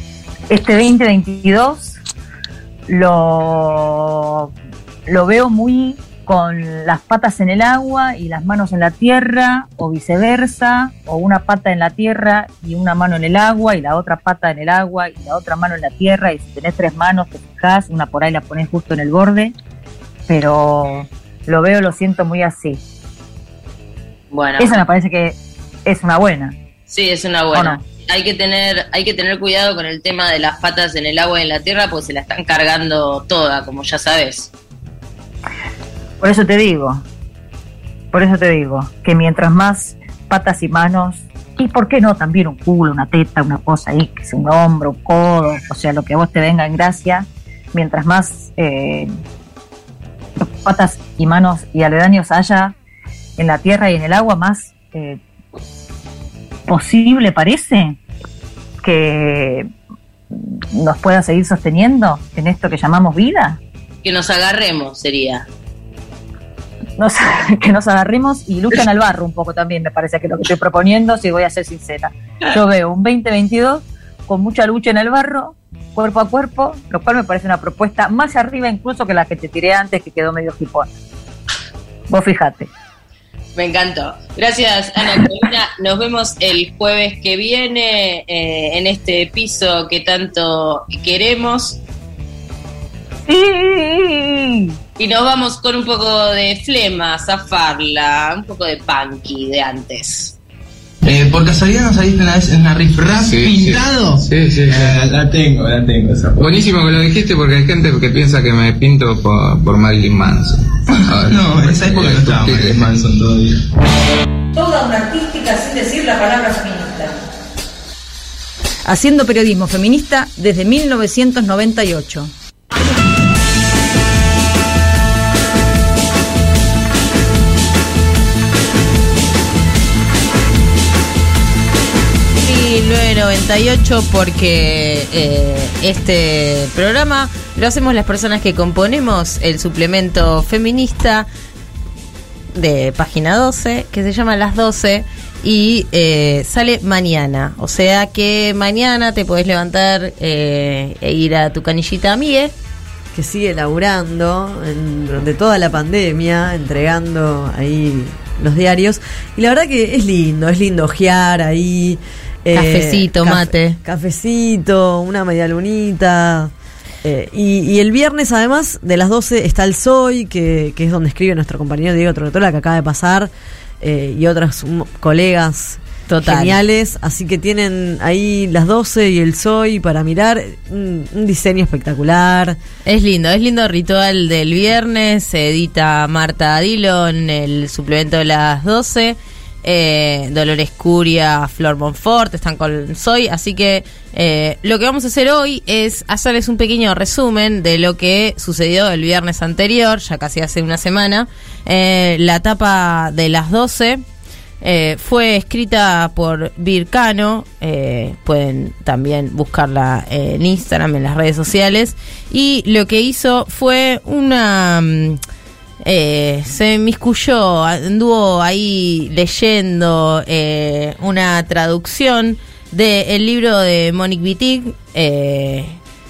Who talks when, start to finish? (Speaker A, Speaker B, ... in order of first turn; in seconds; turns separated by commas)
Speaker A: 0.5-1.9, Speaker A: 2.9-4.5, Speaker A: 5.1-19.5, Speaker A: 20.3-22.8, Speaker B: 24.3-24.8, Speaker A: 24.6-26.5, Speaker B: 26.9-34.5, Speaker A: 27.5-27.8, Speaker A: 36.2-37.0, Speaker A: 38.1-49.1, Speaker A: 50.4-52.7, Speaker A: 53.4-55.2, Speaker A: 56.7-58.0, Speaker A: 58.8-59.7, Speaker A: 60.7-63.6, Speaker B: 64.0-65.5, Speaker A: 67.0-80.9, Speaker A: 82.1-82.7, Speaker B: 83.5-91.8, Speaker A: 93.2-94.7, Speaker B: 95.0-100.3, Speaker C: 101.0-106.6, Speaker D: 103.2-105.0, Speaker D: 106.3-110.6, Speaker D: 111.1-113.0, Speaker C: 111.2-113.6, Speaker E: 114.5-117.1, Speaker E: 118.8-122.3, Speaker B: 132.3-141.3, Speaker B: 142.5-152.5, Speaker F: 153.1-166.5, Speaker B: 162.5-163.8, Speaker F: 167.0-173.3, Speaker F: 173.8-182.6, Speaker B: 176.1-176.6, Speaker B: 182.8-204.0, Speaker B: 204.6-215.2, Speaker B: 215.8-225.8